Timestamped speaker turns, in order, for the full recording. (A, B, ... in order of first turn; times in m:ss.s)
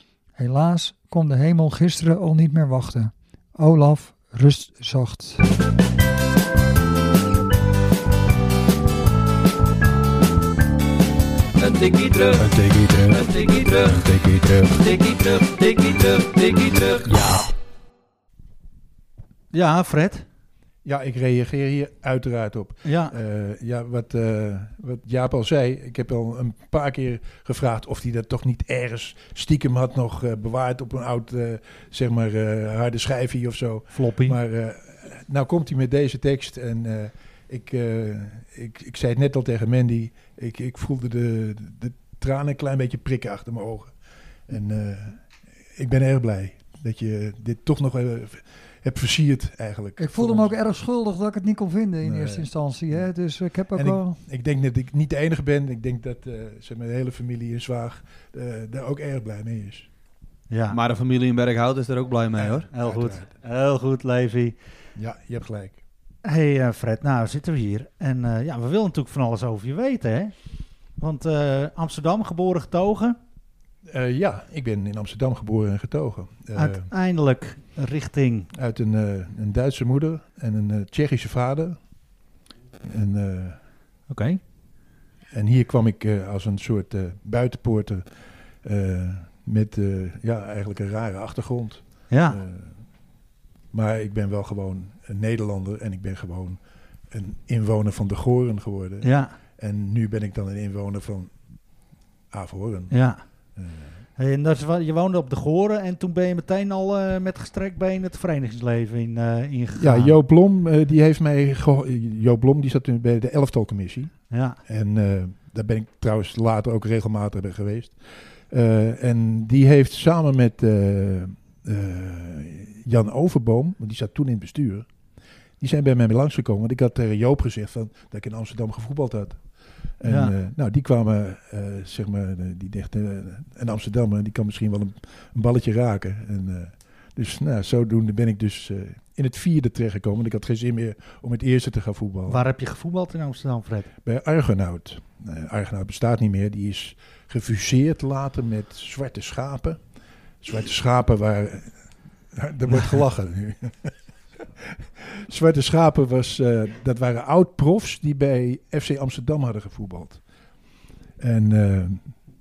0:00.4-0:05.4 A
0:11.6-0:12.4 B
0:12.4-0:13.3 C
0:13.1-0:14.0 B
0:13.9-0:14.8 C
0:14.8-0:17.0 B
0:17.1-0:17.4 C
0:19.5-0:20.2 D
0:20.8-0:43.9 C
0:22.8-0:23.1 D
0:33.9-0:34.4 D
0:44.5-0:45.2 C
0:45.8-0:50.5 C
0:50.0-0:54.1 A
0:52.0-0:53.0 C
0:53.7-0:59.9 C
1:00.5-1:00.8 D
1:00.7-1:02.7 E
1:02.4-1:03.2 C
1:02.7-1:04.5 D
1:05.0-1:05.8 C
1:06.2-1:10.3 D
1:11.0-1:13.2 D
1:13.9-1:16.8 C
1:16.6-1:18.5 D
1:18.6-1:21.8 C
1:22.8-1:23.6 C
1:24.1-1:24.4 D
1:25.3-1:28.0 C
1:28.6-1:32.7 C
1:32.1-1:32.4 D
1:33.7-1:36.6 C
1:37.1-1:41.3 C
1:39.0-1:39.3 D
1:42.3-1:43.0 C
1:42.9-1:43.2 D
1:43.6-1:43.9 C
1:44.2-1:50.2 D
1:49.8-1:54.1 C
1:54.3-1:54.6 D
1:54.7-1:58.0 C
1:58.5-2:04.8 C
2:05.6-2:09.4 C
2:10.0-2:22.4 C
2:10.0-2:10.3 D
2:22.3-2:23.9 D
2:24.0-2:29.8 C
2:30.4-2:31.7 C
2:32.4-2:33.9 C
2:35.3-2:40.2 C
2:41.2-2:42.1 C